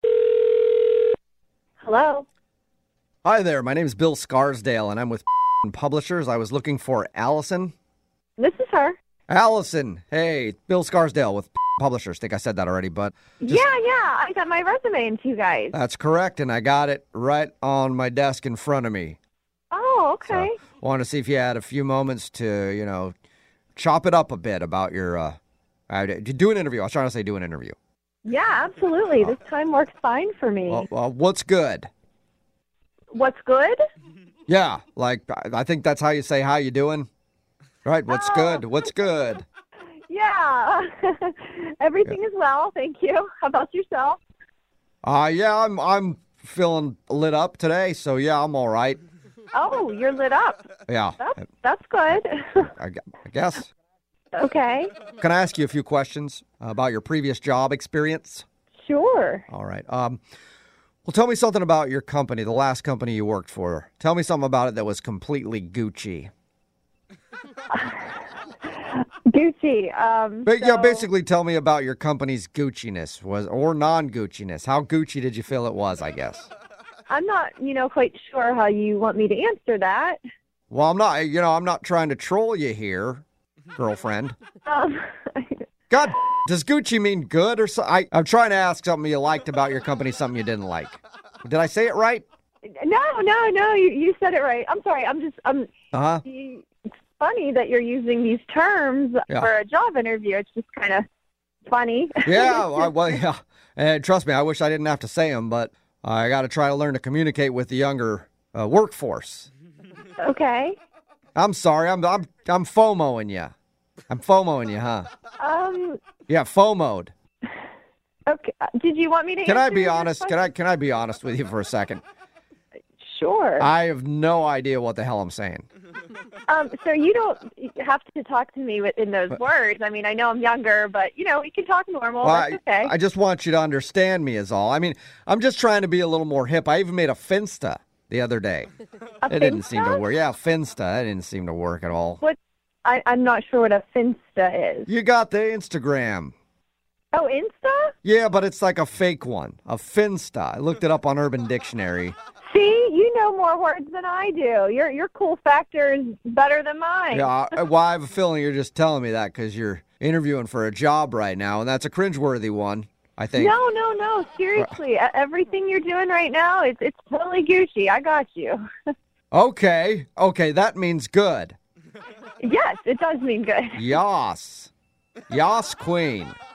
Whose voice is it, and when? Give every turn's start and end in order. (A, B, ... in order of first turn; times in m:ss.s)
0:00.2-0:00.9 A
0:01.8-0:02.2 A
0:03.2-0:07.7 B
0:08.4-0:09.0 A
0:09.3-0:13.6 B
0:13.4-0:15.7 A
0:15.7-0:19.2 B
0:19.7-0:20.6 A
0:20.3-0:23.1 B
0:23.8-0:25.4 B
0:25.9-0:27.8 B
0:28.2-0:30.9 A
0:30.7-0:31.9 B
0:33.1-0:33.8 A
0:34.5-0:37.1 B
0:37.8-0:39.4 B
0:38.1-0:38.9 A
0:40.1-0:44.2 A
0:45.0-0:49.0 B
0:49.5-0:50.7 A
0:50.9-0:51.2 B
0:51.2-0:52.7 A
0:52.6-0:53.7 B
0:54.3-0:54.9 A
0:55.2-0:58.4 B
0:58.8-0:59.4 A
0:59.5-1:00.2 B
1:01.0-1:06.3 B
1:07.7-1:08.1 A
1:08.8-1:11.0 A
1:10.4-1:16.5 B
1:17.1-1:20.2 A
1:20.7-1:23.2 B
1:23.8-1:24.4 B
1:24.6-1:25.6 A
1:25.9-1:32.2 B
1:32.8-1:35.7 A
1:35.9-1:36.2 B
1:36.2-1:36.6 A
1:37.2-1:41.0 A
1:41.7-1:43.2 A
1:42.2-1:49.5 B
1:50.2-1:50.8 A
1:51.4-1:53.5 B
1:54.1-1:55.1 B
1:55.4-1:56.0 A
1:56.3-1:57.1 B
1:58.3-2:00.5 A
1:59.4-2:02.0 B
2:03.0-2:03.7 A
2:03.6-2:05.6 B
2:06.5-2:12.9 A
2:12.2-2:18.7 B
2:19.2-2:20.0 A
2:19.3-2:22.2 B
2:22.2-2:24.9 A
2:24.9-2:26.3 B
2:27.1-2:27.9 A
2:28.0-2:32.2 B
2:32.4-2:37.3 A
2:37.1-2:43.5 B
2:43.3-2:48.6 A
2:49.3-2:51.6 B
2:52.4-2:53.9 A
2:53.7-2:54.7 B
2:55.3-2:56.4 B